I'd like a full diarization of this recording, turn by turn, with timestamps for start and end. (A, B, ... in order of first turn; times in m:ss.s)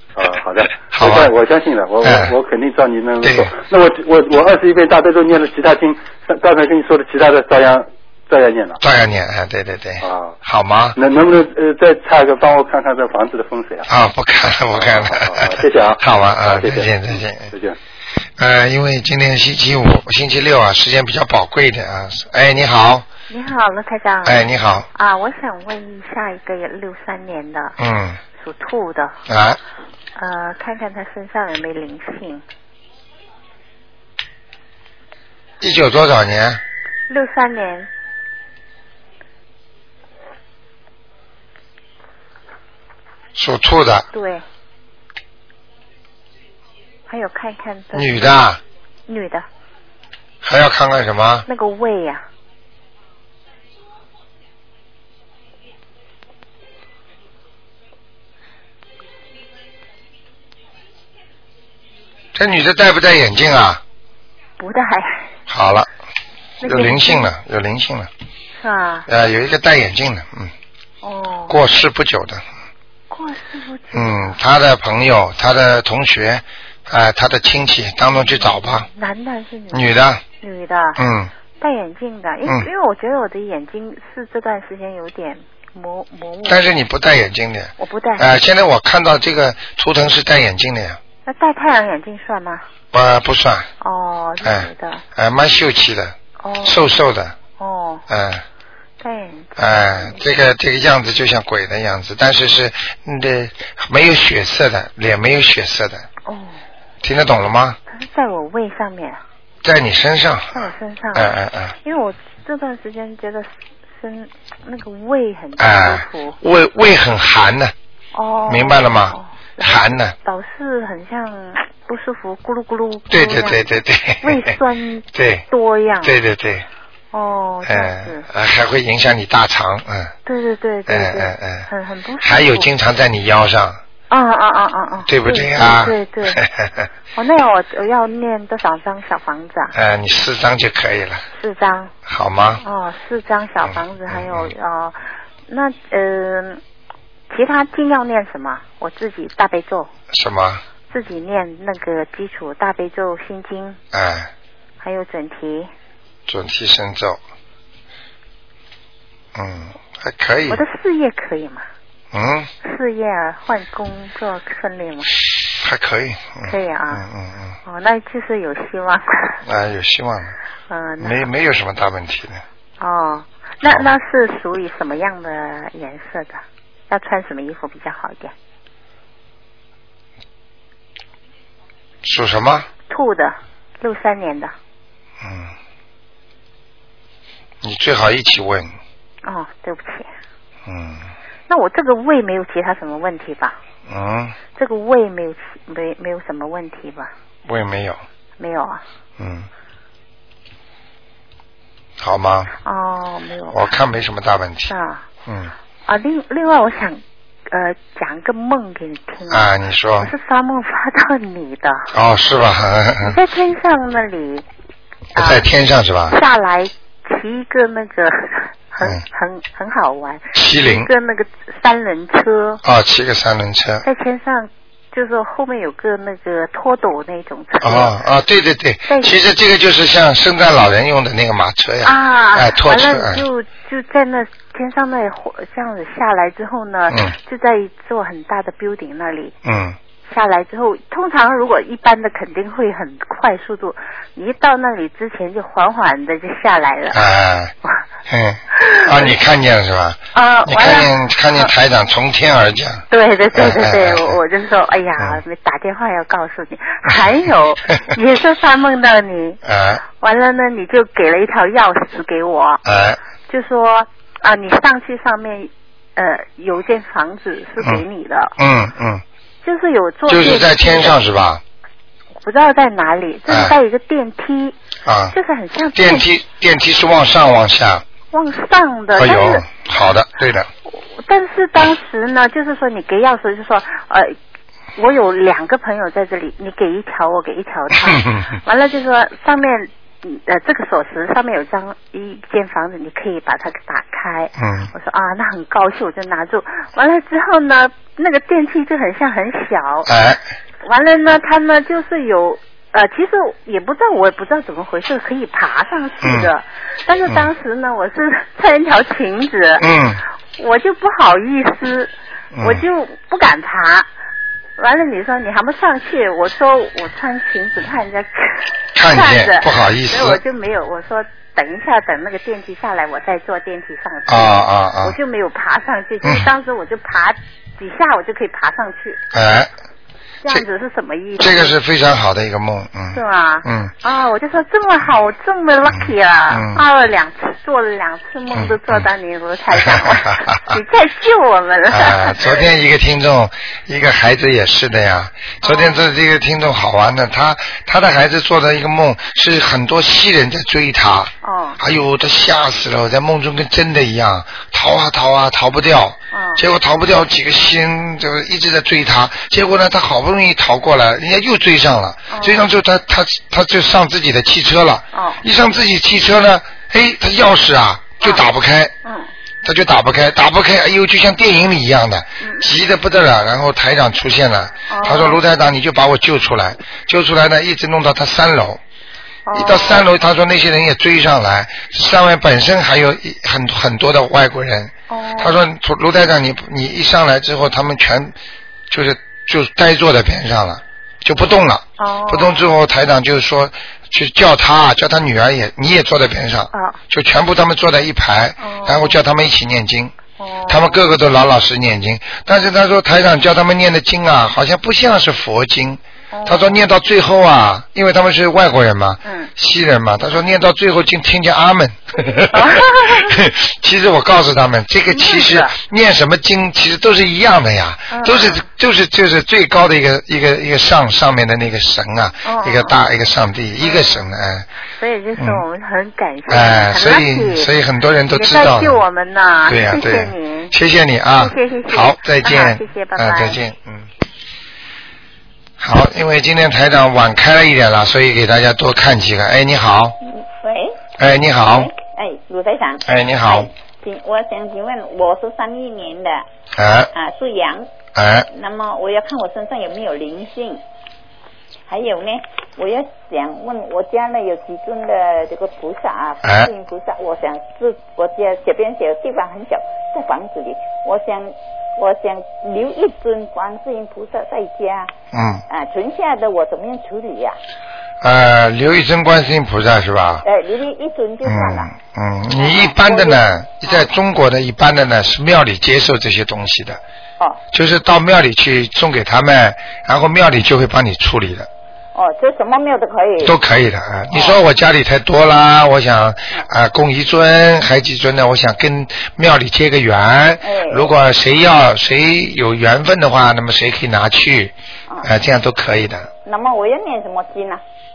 0:00.2-0:08.8 A
0:00.8-0:01.3 B
0:02.0-0:02.4 B
0:03.2-0:03.5 B
0:08.8-0:11.0 B
0:10.0-0:10.4 A
0:11.0-0:13.9 A
0:13.9-0:17.5 B
0:14.8-0:17.8 A
0:18.4-0:23.1 B
0:23.3-0:27.8 C
0:24.2-0:24.9 B
0:27.8-0:28.2 B
0:28.4-0:29.2 C
0:29.3-0:29.6 B
0:30.2-0:32.4 C
0:35.6-0:36.6 B
0:37.1-0:37.9 C
0:43.4-0:44.1 B
0:44.1-0:44.4 C
0:47.1-0:48.4 C
0:47.9-0:48.6 B
0:49.1-0:49.4 C
0:50.4-0:51.5 B
0:51.5-0:52.2 C
1:02.4-1:03.8 B
1:04.6-1:05.3 C
1:05.5-1:05.9 B
1:06.6-1:07.3 C
1:06.6-1:08.1 B
1:08.6-1:09.1 C
1:09.1-1:10.5 B
1:11.0-1:11.6 C
1:11.5-1:12.4 B
1:13.1-1:14.4 C
1:13.9-1:18.9 B
1:18.1-1:21.0 C
1:19.7-1:20.2 B
1:21.0-1:21.3 B
1:21.6-1:26.7 C
1:26.4-1:31.0 B
1:27.8-1:28.3 C
1:31.2-1:32.6 C
1:32.9-1:33.7 B
1:33.8-1:35.0 C
1:34.4-1:37.4 B
1:36.4-1:36.8 C
1:37.6-1:38.0 C
1:38.1-1:38.4 B
1:39.0-1:40.3 C
1:39.6-1:46.1 B
1:46.3-1:46.6 C
1:47.0-1:47.8 B
1:47.9-1:49.2 C
1:49.6-1:50.6 B
1:50.5-1:56.4 C
1:51.2-1:51.8 B
1:55.6-1:57.7 B
1:58.1-2:03.7 C
1:58.5-2:00.2 B
2:03.1-2:04.5 B
2:04.2-2:06.2 C
2:05.1-2:05.4 B
2:06.0-2:06.7 B
2:07.1-2:08.3 C
2:07.6-2:10.1 B
2:10.3-2:12.7 C
2:10.9-2:11.7 B
2:12.2-2:13.8 B
2:14.1-2:16.4 C
2:15.1-2:16.9 B
2:17.2-2:19.7 C
2:19.7-2:21.3 B
2:21.4-2:21.9 C
2:22.1-2:22.6 B
2:22.6-2:26.6 C
2:23.7-2:24.5 B
2:27.3-2:29.9 C
2:30.1-2:30.6 B
2:30.9-2:33.8 C
2:33.9-2:34.3 B
2:34.8-2:35.7 C
2:36.3-2:37.2 B
2:39.4-2:40.6 B
2:40.5-2:41.6 C
2:42.1-2:42.5 B
2:42.6-2:45.1 C
2:45.6-2:47.6 B
2:46.5-2:47.0 C
2:47.6-2:49.4 C
2:49.4-2:50.4 B
2:50.7-2:51.2 C
2:51.0-2:52.4 B
2:52.8-2:58.3 C
3:02.0-3:02.7 B
3:02.9-3:04.5 C
3:05.2-3:05.5 B
3:07.6-3:08.7 B
3:09.2-3:10.1 C
3:10.7-3:11.1 B
3:11.5-3:13.6 C
3:13.9-3:14.4 B
3:14.6-3:17.1 C
3:17.4-3:18.0 B
3:18.4-3:18.8 C
3:19.2-3:19.5 B
3:22.0-3:22.5 B
3:22.6-3:23.7 C
3:23.5-3:24.7 B
3:24.7-3:25.0 C
3:25.3-3:25.5 B
3:25.9-3:31.9 C
3:29.3-3:30.1 B
3:31.9-3:33.2 B
3:33.0-3:34.4 C
3:35.2-3:36.2 B
3:35.2-3:35.5 C
3:36.1-3:42.6 C
3:40.3-3:40.9 B
3:42.6-3:43.8 B
3:43.8-3:48.0 C
3:47.6-3:53.2 B
3:48.9-3:49.2 C
3:51.8-3:59.3 C
3:56.9-3:57.2 B
3:59.4-3:59.8 B
4:00.1-4:07.0 C
4:06.9-4:07.5 B
4:08.1-4:14.2 B
4:08.6-4:09.1 C
4:10.1-4:11.5 C
4:12.9-4:19.4 C
4:19.4-4:19.8 B
4:20.0-4:22.6 C
4:22.6-4:23.0 B
4:23.3-4:28.4 C
4:27.6-4:27.8 B
4:28.4-4:29.0 B
4:29.4-4:31.0 C
4:30.1-4:31.4 B
4:32.2-4:34.6 C
4:33.3-4:33.6 B
4:34.8-4:35.2 B
4:35.1-4:36.1 C
4:35.8-4:37.8 B
4:38.1-4:39.5 C
4:39.0-4:40.5 B
4:40.7-4:44.2 C
4:44.8-4:59.9 C
4:47.8-4:48.4 B
4:54.4-4:54.7 B
4:59.9-5:00.2 B
5:00.6-5:09.7 C
5:06.0-5:06.3 B
5:09.6-5:10.0 B
5:10.4-5:13.9 C
5:12.3-5:12.6 B
5:14.6-5:29.0 C
5:18.8-5:20.2 B
5:24.1-5:25.0 B
5:29.1-5:29.5 B
5:30.2-5:31.6 C
5:31.2-5:33.7 B
5:32.9-5:42.5 C
5:35.7-5:36.6 B
5:38.3-5:38.9 B
5:39.5-5:40.6 B
5:41.7-6:08.7 B
5:45.4-5:45.8 C
5:51.2-5:51.6 C
5:56.1-5:56.4 C
6:02.1-6:02.5 C
6:04.9-6:05.2 C
6:08.8-6:09.1 C
6:09.4-6:18.6 B
6:12.2-6:12.5 C
6:14.7-6:15.2 C
6:19.3-6:19.9 C
6:19.3-6:28.2 B
6:24.9-6:25.4 C
6:28.7-6:39.9 B
6:31.8-6:32.5 C
6:36.5-6:36.8 C
6:38.4-6:39.0 C
6:40.2-6:40.8 C
6:40.5-7:04.5 B
6:46.1-6:46.6 C
6:49.0-6:49.3 C
6:52.3-6:53.2 C
6:54.9-6:55.6 C
6:57.9-6:58.5 C
7:02.2-7:02.8 C
7:03.6-7:04.1 C
7:04.8-7:07.5 C
7:05.2-7:05.4 B
7:06.3-7:08.8 B
7:08.1-7:10.5 C
7:09.5-7:13.9 B
7:11.2-7:13.4 C
7:15.6-7:20.0 B
7:20.1-7:20.8 D
7:21.0-7:21.7 B
7:21.5-7:26.2 D
7:22.8-7:23.5 B
7:26.6-7:26.9 B
7:26.9-7:27.7 D
7:28.0-7:28.3 B
7:28.3-7:30.6 D
7:31.7-7:44.9 D
7:36.2-7:36.5 B
7:45.1-7:45.4 B
7:45.5-7:47.4 D
7:48.0-7:50.2 B
7:50.2-7:51.7 D
7:51.2-7:56.8 B
7:52.4-7:53.8 D
7:57.5-8:01.5 B
8:02.0-8:03.4 D
8:03.2-8:14.5 B
8:04.1-8:04.4 D
8:10.4-8:10.9 D
8:15.0-8:16.1 B
8:16.2-8:17.6 D